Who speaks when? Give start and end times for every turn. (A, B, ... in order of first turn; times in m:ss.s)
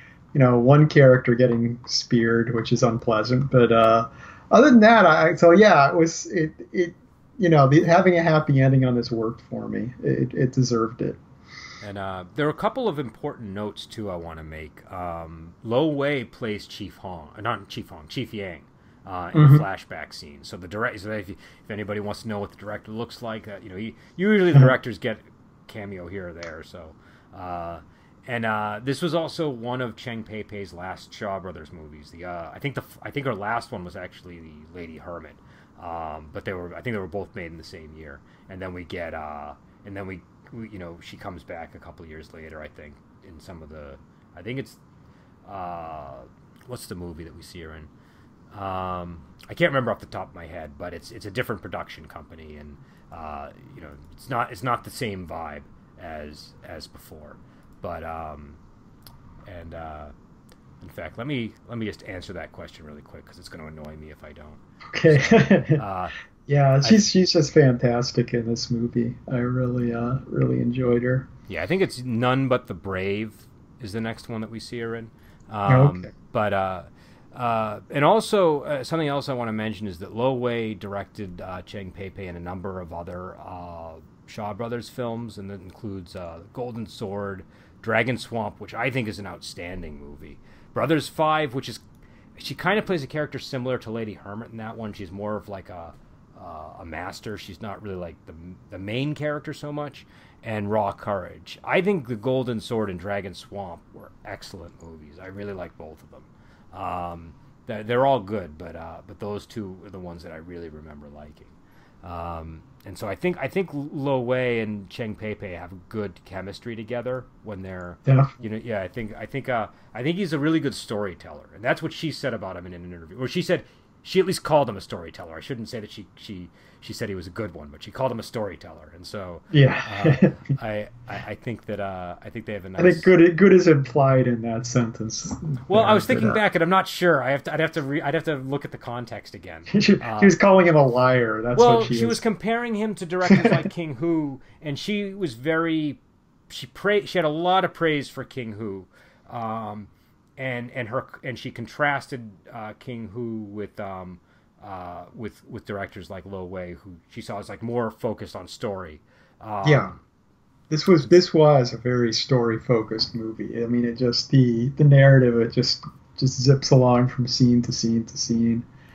0:00.3-0:11.2 A
0:11.8-0:44.8 B
0:19.3-0:19.6 A
0:45.4-0:47.9 B
0:48.5-0:58.6 B
0:59.5-1:00.1 B
1:00.8-1:06.1 B
1:04.9-1:05.8 A
1:06.5-1:11.3 A
1:11.5-1:31.8 B
1:15.7-1:16.1 A
1:32.4-2:13.1 B
2:09.5-2:10.4 A
2:12.8-2:16.4 A
2:15.7-2:20.4 B
2:19.7-2:22.2 A
2:21.6-2:40.0 B
2:23.3-2:23.6 A
2:39.6-2:39.9 A
2:40.7-2:48.7 A